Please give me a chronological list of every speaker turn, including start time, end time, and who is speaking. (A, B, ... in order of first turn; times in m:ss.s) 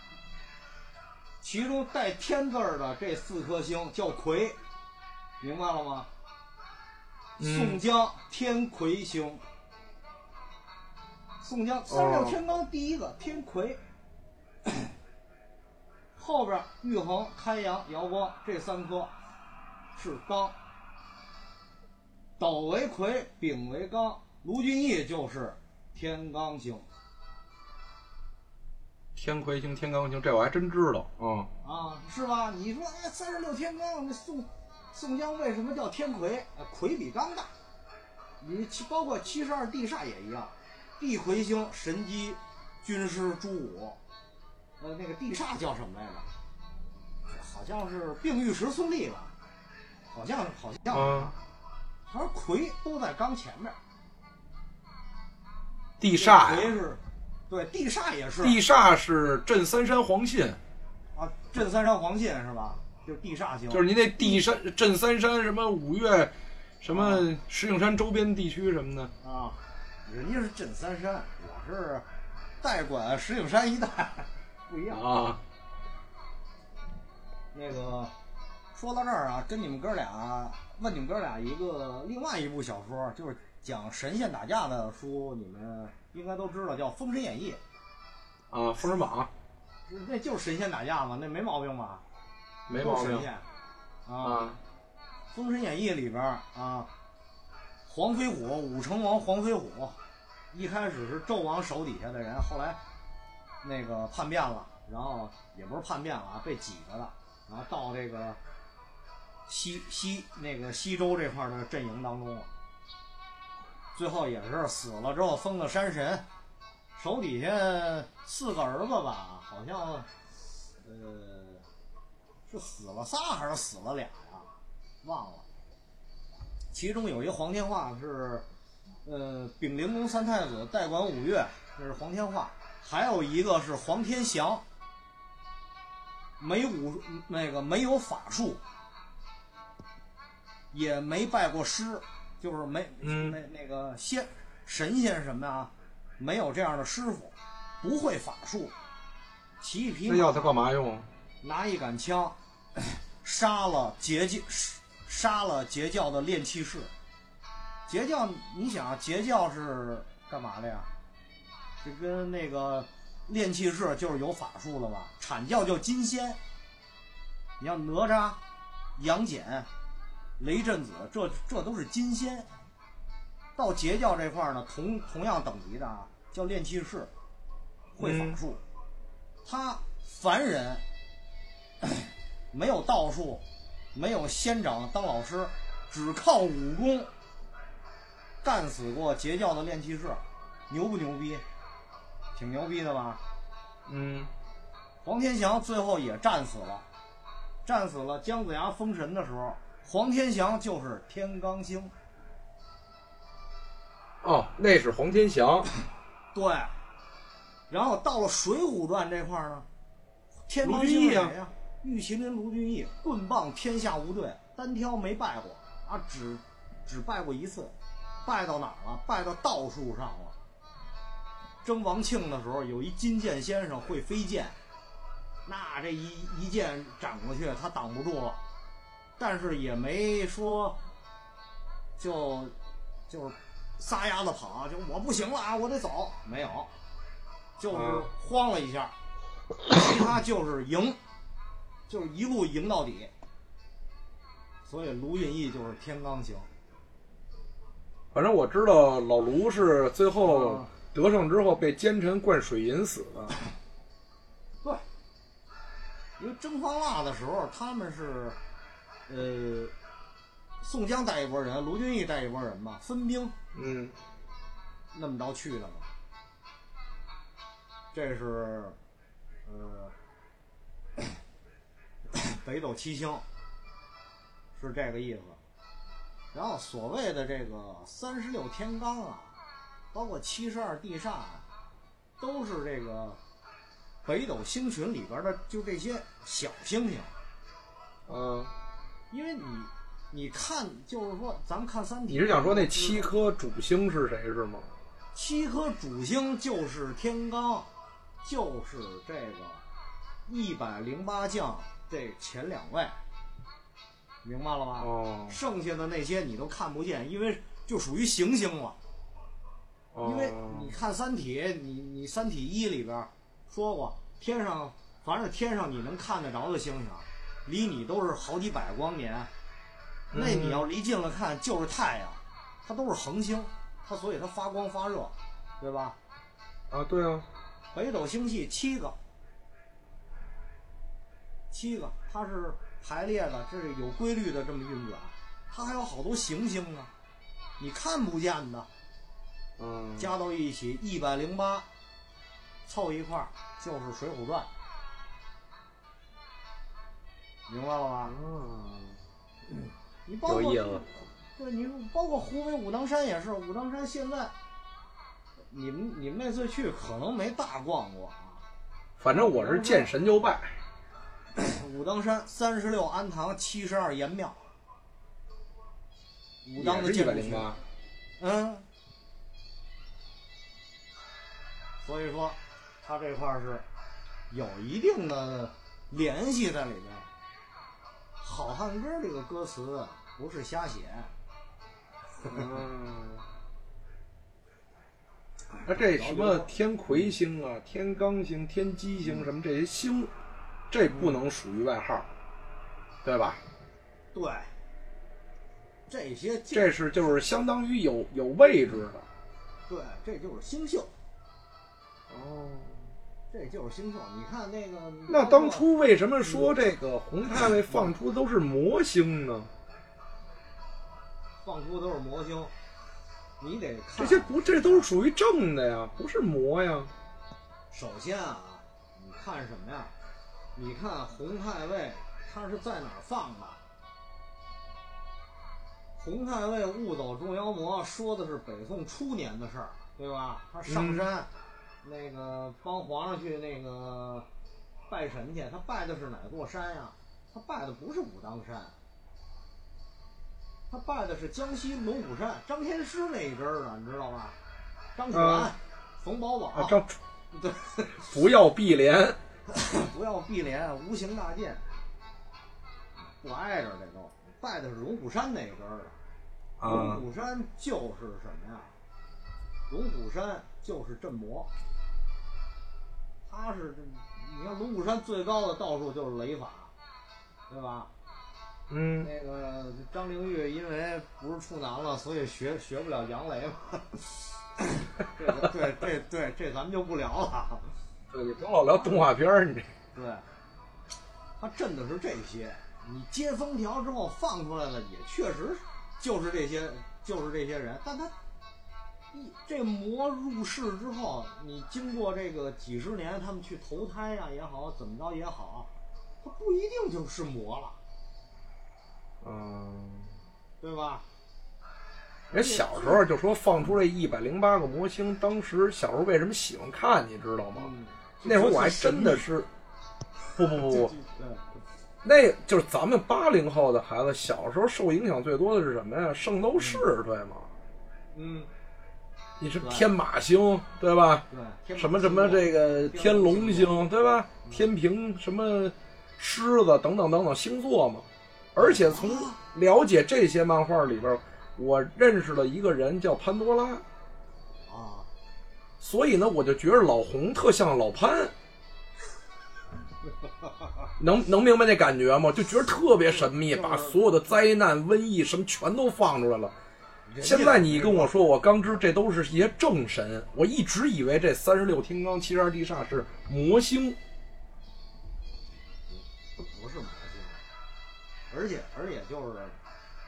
0:01.4-0:04.6 A
0:05.4-0:06.1 A
0:07.4-0:07.8 B
0:07.4-0:09.4 A
0:11.4-0:13.8 A
0:11.9-0:12.4 B
0:16.2-0:19.1 A
0:19.9-0:20.6 A
0:22.4-0:26.8 A
0:29.2-0:31.5 B
0:31.6-0:37.5 A
0:38.4-0:44.0 A
0:44.8-0:46.3 A
0:47.3-0:49.3 A
0:50.1-0:51.3 A
0:50.9-0:51.3 B
0:52.1-0:53.8 A
0:56.0-0:56.8 B
0:56.1-0:58.6 A
0:58.4-1:00.6 B
1:01.1-1:04.4 A
1:03.7-1:09.1 B
1:06.9-1:07.3 A
1:09.2-1:12.0 A
1:12.6-1:15.0 A
1:14.9-1:15.4 B
1:17.5-1:18.1 A
1:18.7-1:27.6 A
1:28.5-1:29.3 B
1:29.9-1:32.0 A
1:32.7-1:33.3 B
1:32.7-1:33.4 A
1:34.0-1:34.5 A
1:34.2-1:34.6 B
1:35.3-1:36.9 A
1:37.9-1:40.0 A
1:40.5-1:42.8 A
1:43.6-1:48.4 A
1:49.5-1:52.5 A
1:53.9-1:56.2 A
1:57.0-2:00.1 A
2:00.8-2:01.6 A
2:02.5-2:04.5 A
2:05.0-2:05.4 A
2:06.7-2:08.4 A
2:09.0-2:14.6 A
2:16.4-2:18.6 A
2:20.7-2:28.7 A
2:23.0-2:23.4 B
2:29.6-2:30.6 A
2:30.1-2:31.0 B
2:31.4-2:36.9 A
2:37.9-2:40.9 A
2:41.8-2:46.4 A
2:47.6-2:48.4 A
2:49.0-2:49.7 A
2:50.4-2:52.5 A
2:53.6-2:57.1 A
2:58.0-2:58.6 A
2:58.0-2:58.4 B
2:59.4-3:00.8 A
3:01.8-3:03.4 A
3:03.9-3:07.1 A
3:08.4-3:11.4 A
3:12.3-3:13.2 A
3:13.9-3:14.3 B
3:15.0-3:16.8 A
3:17.6-3:21.9 A
3:24.2-3:25.7 B
3:26.3-3:26.7 A
3:27.7-3:29.6 A
3:30.5-3:37.7 A
3:30.6-3:31.3 B
3:38.2-3:40.3 A
3:41.6-3:44.6 A
3:45.4-3:48.4 A
3:49.2-3:50.8 A
3:52.0-3:52.5 A
3:53.1-3:56.7 A
3:57.6-3:58.9 A
3:57.7-3:58.1 B
3:59.7-4:01.0 A
4:01.9-4:03.1 A
4:04.6-4:06.5 A
4:08.1-4:13.4 B
4:10.2-4:10.7 A
4:16.2-4:18.4 A
4:19.1-4:19.7 A
4:20.6-4:23.3 A
4:23.5-4:23.9 B
4:24.9-4:25.9 A
4:27.9-4:28.8 A
4:29.4-4:29.9 A
4:32.1-4:33.2 A
4:34.5-4:35.4 A
4:36.3-4:39.4 A
4:39.9-4:41.4 A
4:42.2-4:43.2 A
4:44.0-4:47.1 A
4:48.1-4:48.5 B
4:49.1-4:53.1 A
4:52.1-4:54.7 B
4:55.1-4:57.7 A
4:58.2-4:59.6 A
5:00.3-5:03.0 A
5:04.2-5:08.8 A
5:04.8-5:05.4 B
5:09.9-5:10.7 B
5:10.0-5:19.3 A
5:20.1-5:20.6 B
5:20.1-5:26.0 A
5:26.7-5:27.2 B
5:27.7-5:29.0 A
5:31.5-5:36.9 A
5:37.6-5:38.7 A
5:39.6-5:40.1 B
5:40.0-5:41.7 A
5:42.7-5:44.5 A
5:47.5-5:48.1 A
5:48.1-5:49.0 B
5:50.0-5:54.3 A
5:50.2-5:50.8 B
5:55.5-5:58.4 A
5:59.0-6:00.5 B
5:59.1-5:59.9 A
6:01.4-6:04.5 A
6:06.4-6:07.5 A
6:06.6-6:07.6 B
6:08.2-6:08.6 A
6:11.8-6:13.6 A
6:14.3-6:17.1 A
6:18.2-6:21.1 A
6:22.2-6:22.5 A
6:22.3-6:23.2 B
6:25.5-6:27.1 A
6:25.6-6:30.1 B
6:30.7-6:32.1 B
6:30.9-6:31.2 A
6:33.0-6:33.4 B
6:34.1-6:34.5 A
6:35.9-6:37.3 A
6:36.5-6:39.0 B
6:39.7-6:40.9 A
6:42.1-6:42.9 B
6:43.3-6:45.7 A
6:45.1-6:49.5 B
6:47.7-6:47.9 A
6:51.4-6:52.5 A
6:53.4-6:54.9 A
6:54.0-6:56.9 B
6:57.7-6:59.9 A
7:00.5-7:03.6 A
7:06.0-7:11.3 A
7:10.7-7:11.0 B
7:11.8-7:14.3 A
7:14.9-7:18.7 A
7:20.7-7:24.4 A
7:25.0-7:26.8 A
7:25.1-7:25.5 B
7:26.5-7:26.9 B
7:27.3-7:28.1 A
7:28.1-7:29.2 B
7:29.5-7:31.6 A
7:33.0-7:36.0 A
7:36.6-7:37.0 B
7:36.6-7:38.7 A
7:39.7-7:41.5 A
7:43.3-7:46.7 A
7:47.5-7:47.9 A
7:48.7-7:49.1 B
7:49.0-7:57.7 A
7:58.1-7:59.7 B
7:59.9-8:00.2 A
8:01.4-8:08.1 A
8:09.1-8:15.7 A
8:16.2-8:17.8 A
8:19.2-8:20.1 B
8:20.6-8:21.0 A
8:22.3-8:23.0 A
8:22.3-8:27.7 B
8:27.5-8:29.2 A
8:28.2-8:29.5 B
8:30.4-8:30.9 B
8:30.5-8:31.4 A
8:32.0-8:37.5 B
8:36.6-8:36.8 A
8:38.1-8:38.5 A
8:39.4-8:41.2 B
8:39.6-8:39.9 A
8:41.3-8:43.9 A
8:41.8-8:48.0 B
8:48.5-8:49.4 A
8:48.6-8:53.8 B
8:54.7-8:55.1 A
8:55.8-8:58.3 B
9:00.4-9:00.9 A
9:01.0-9:06.5 B
9:03.1-9:04.0 A
9:07.1-9:08.2 A
9:07.2-9:14.0 B
9:15.9-9:17.4 A
9:18.3-9:19.6 A